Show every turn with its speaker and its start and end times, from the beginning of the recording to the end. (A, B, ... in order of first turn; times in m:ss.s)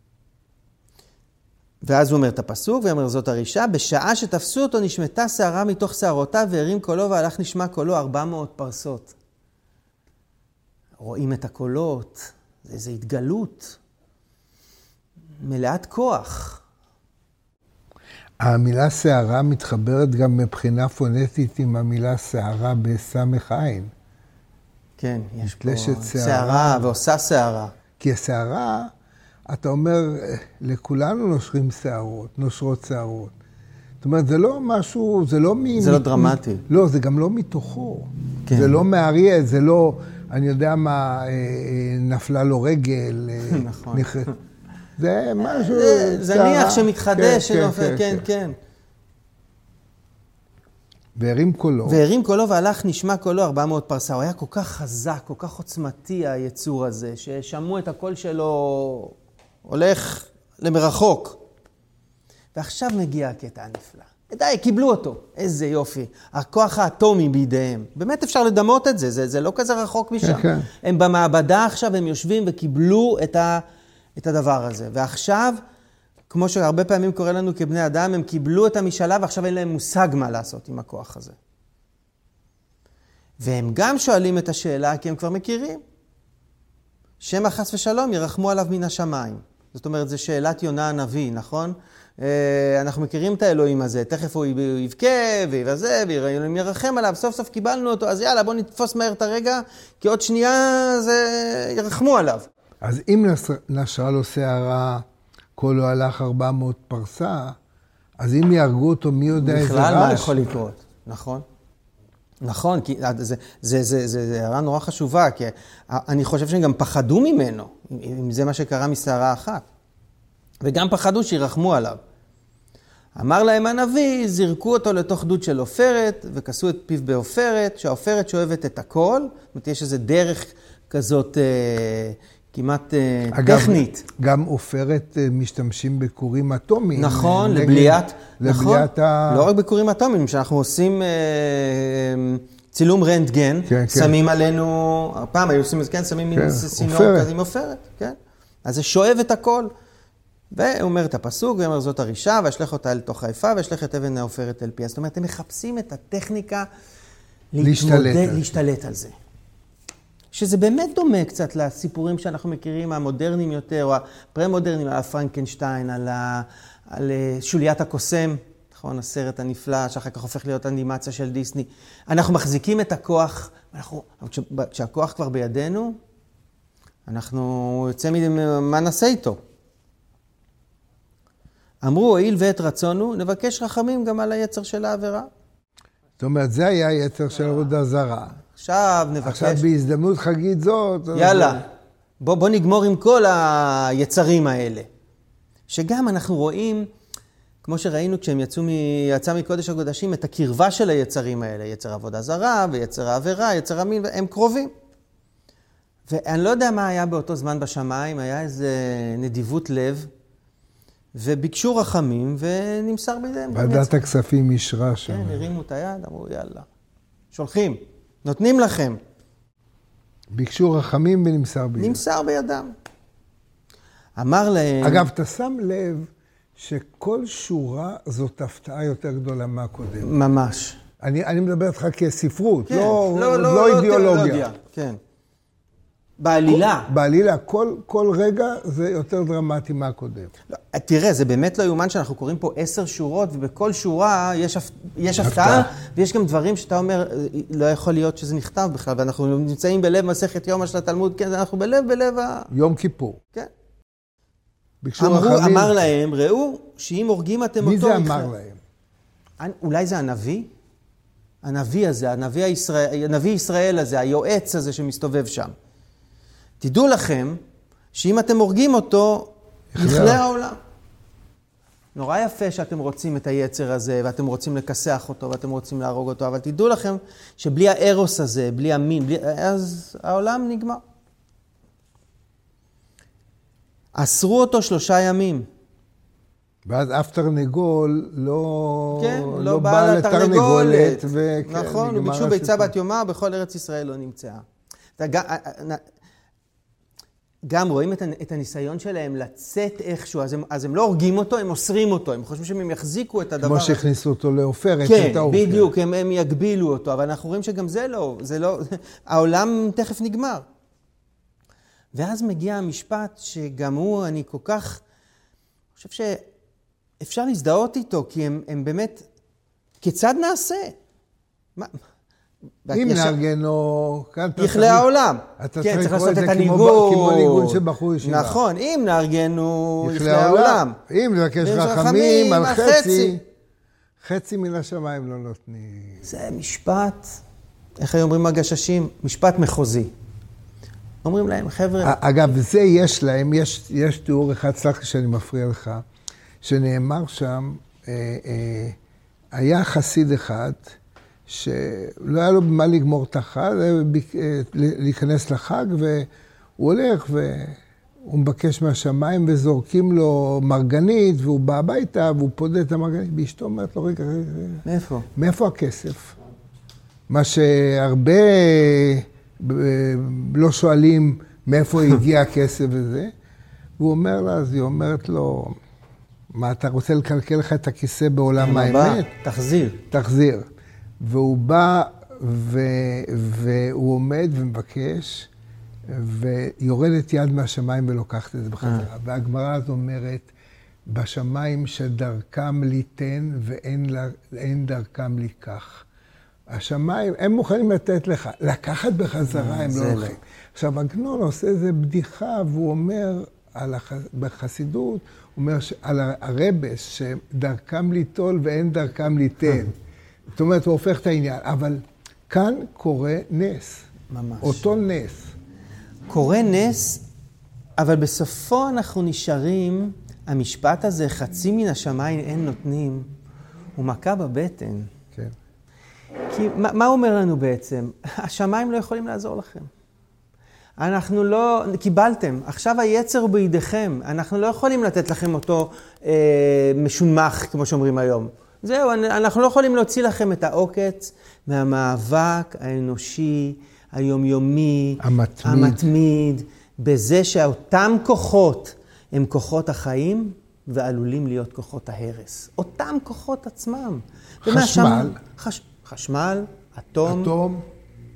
0:01.8-0:09.2 A
0:11.0-0:13.8 A
0:15.4-0:16.6 A
0:18.4-0:23.9 B
0:25.0-0:27.7 A
0:25.4-0:26.9 B
0:28.0-0:28.9 B
0:29.5-0:33.3 B
0:34.0-0:44.3 B
0:35.8-0:36.6 A
0:38.4-0:38.8 A
0:43.4-0:44.4 A
0:45.0-0:48.3 B
0:45.4-0:48.6 A
0:51.2-0:52.0 B
0:51.8-1:01.4 A
1:02.6-1:13.6 A
1:10.2-1:10.7 B
1:14.2-1:15.6 A
1:16.3-1:21.4 A
1:23.4-1:25.8 A
1:27.2-1:42.5 A
1:42.8-1:45.0 B
1:45.6-1:47.6 B
1:48.2-1:50.5 B
1:49.3-1:51.4 A
1:52.4-1:59.6 A
2:00.6-2:02.0 A
2:03.2-2:14.1 A
2:13.3-2:19.5 B
2:17.0-2:29.7 A
2:23.7-2:24.2 B
2:26.4-2:27.3 B
2:30.5-2:36.7 A
2:37.5-2:39.2 A
2:37.6-2:38.6 B
2:40.3-2:56.0 A
2:57.1-2:59.4 A
3:01.8-3:05.3 A
3:06.2-3:08.4 B
3:08.5-3:09.6 A
3:09.2-3:11.6 B
3:11.1-3:11.7 A
3:12.2-3:14.9 A
3:15.7-3:16.9 A
3:17.6-3:24.7 A
3:26.1-3:30.1 A
3:31.2-3:34.0 A
3:33.5-3:35.4 B
3:35.1-3:36.7 A
3:37.3-3:39.0 A
3:40.3-3:42.0 B
3:41.8-3:42.7 A
3:44.2-3:45.0 A
3:44.8-3:50.1 B
3:50.0-3:50.8 A
3:51.0-3:54.5 B
3:52.7-3:55.0 A
3:56.2-3:56.9 A
3:56.5-4:00.3 B
4:00.5-4:12.5 A
4:05.2-4:05.7 B
4:12.5-4:13.2 B
4:14.8-4:15.8 B
4:15.0-4:18.3 A
4:17.6-4:18.6 B
4:19.4-4:20.5 A
4:21.4-4:25.5 A
4:26.6-4:27.4 A
4:27.9-4:30.6 A
4:29.7-4:30.2 B
4:32.0-4:40.8 A
4:44.0-4:45.5 A
4:46.6-4:52.7 B
4:48.9-4:54.4 A
4:55.0-4:55.8 A
4:57.5-5:03.8 A
5:03.4-5:05.7 B
5:04.8-5:10.4 A
5:11.9-5:14.8 A
5:15.8-5:16.2 A
5:17.0-5:19.1 A
5:19.8-5:20.8 A
5:22.6-5:23.2 A
5:22.7-5:24.9 B
5:24.4-5:30.8 A
5:25.4-5:28.4 B
5:29.8-5:33.2 B
5:31.4-5:33.2 A
5:34.0-5:36.1 B
5:36.0-5:37.1 A
5:37.8-5:39.9 A
5:41.0-5:42.0 A
5:41.8-5:45.8 B
5:46.4-5:48.8 B
5:49.3-5:50.7 B
5:51.3-6:06.2 B
6:04.6-6:05.1 A
6:07.1-6:13.1 B
6:13.8-6:15.6 B
6:16.3-6:19.1 B
6:18.4-6:19.8 A
6:19.9-6:20.5 B
6:21.0-6:25.3 B
6:25.9-6:30.3 B
6:28.6-6:28.9 A
6:30.9-6:35.8 B
6:36.5-6:49.8 B
6:39.3-6:40.2 A
6:50.3-6:53.9 B
6:54.1-6:54.6 A
6:54.4-6:55.3 B
6:56.1-6:57.0 A
6:57.8-7:03.1 A
7:03.8-7:04.9 A
7:06.3-7:09.7 A
7:10.8-7:37.3 A
7:25.0-7:25.9 B
7:34.4-7:35.2 B
7:37.0-7:37.7 B